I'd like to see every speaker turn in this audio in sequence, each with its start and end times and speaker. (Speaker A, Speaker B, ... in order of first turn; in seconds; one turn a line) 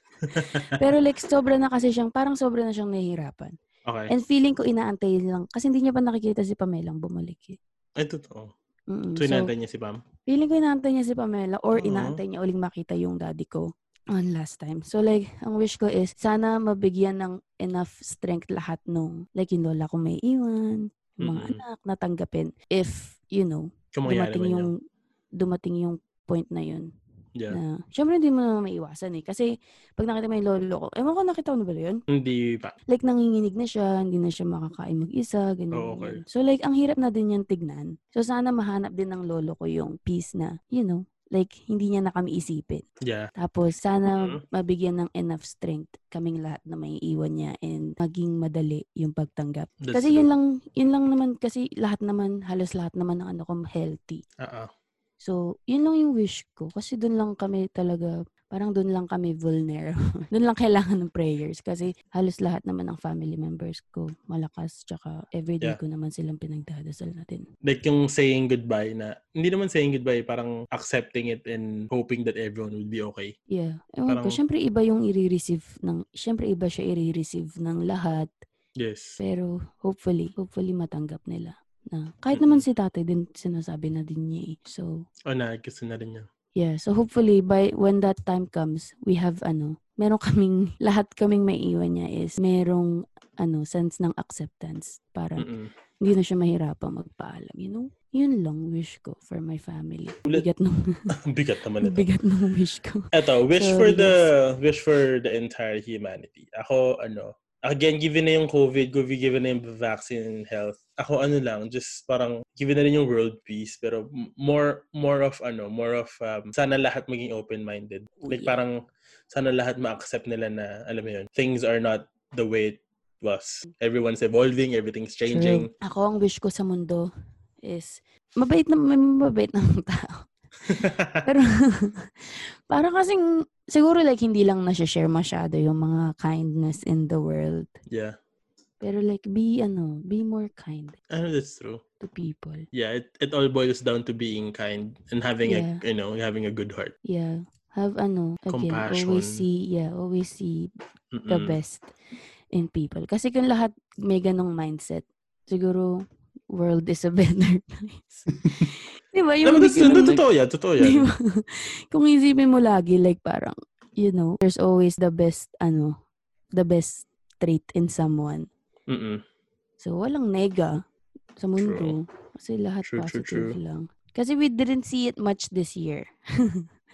Speaker A: 0.3-0.8
Speaker B: 0.4-3.5
Speaker A: 3.9-4.1
Speaker B: 4.1-7.6
Speaker A: 8.0-8.5
Speaker B: 8.9-9.5
Speaker A: 9.2-10.0
Speaker B: 10.3-24.7
Speaker A: 11.8-12.2
Speaker A: 21.2-21.6
Speaker A: 23.9-24.7
Speaker B: 25.4-26.9
Speaker B: 27.5-32.0
Speaker A: 32.1-32.8
Speaker B: 32.9-42.8
Speaker A: 35.7-36.2
Speaker A: 43.0-43.3
Speaker B: 43.4-54.2
Speaker A: 44.2-44.4
Speaker A: 49.8-50.3
Speaker A: 54.4-54.7
Speaker B: 55.2-67.5
Speaker A: 67.6-73.3
Speaker B: 73.5-78.3
Speaker A: 74.1-74.4
Speaker A: 78.8-79.2
Speaker B: 79.2-84.9
Speaker A: 82.3-82.7
Speaker A: 85.3-86.3
Speaker B: 86.6-95.5
Speaker A: 95.4-95.7
Speaker B: 96.0-101.2
Speaker A: 101.1-102.1
Speaker B: 101.8-104.3
Speaker A: 103.1-118.8
Speaker B: 118.2-118.5
Speaker A: 119.3-125.7
Speaker B: 125.3-127.1
Speaker B: 127.7-132.1
Speaker A: 130.7-131.3
Speaker B: 132.7-137.7
Speaker A: 137.9-138.2
Speaker B: 138.8-141.0
Speaker A: 141.1-141.8
Speaker B: 142.0-142.7
Speaker A: 142.7-146.9
Speaker B: 145.4-145.8
Speaker B: 147.1-150.7
Speaker A: 148.5-149.4
Speaker A: 151.1-151.6
Speaker B: 151.3-151.9
Speaker B: 152.5-155.9
Speaker B: 156.5-160.2
Speaker A: 159.4-161.1
Speaker B: 160.8-165.9
Speaker B: 166.6-168.5
Speaker A: 168.9-169.2
Speaker B: 169.8-170.7
Speaker B: 171.4-176.6
Speaker A: 171.6-171.9
Speaker A: 172.8-173.6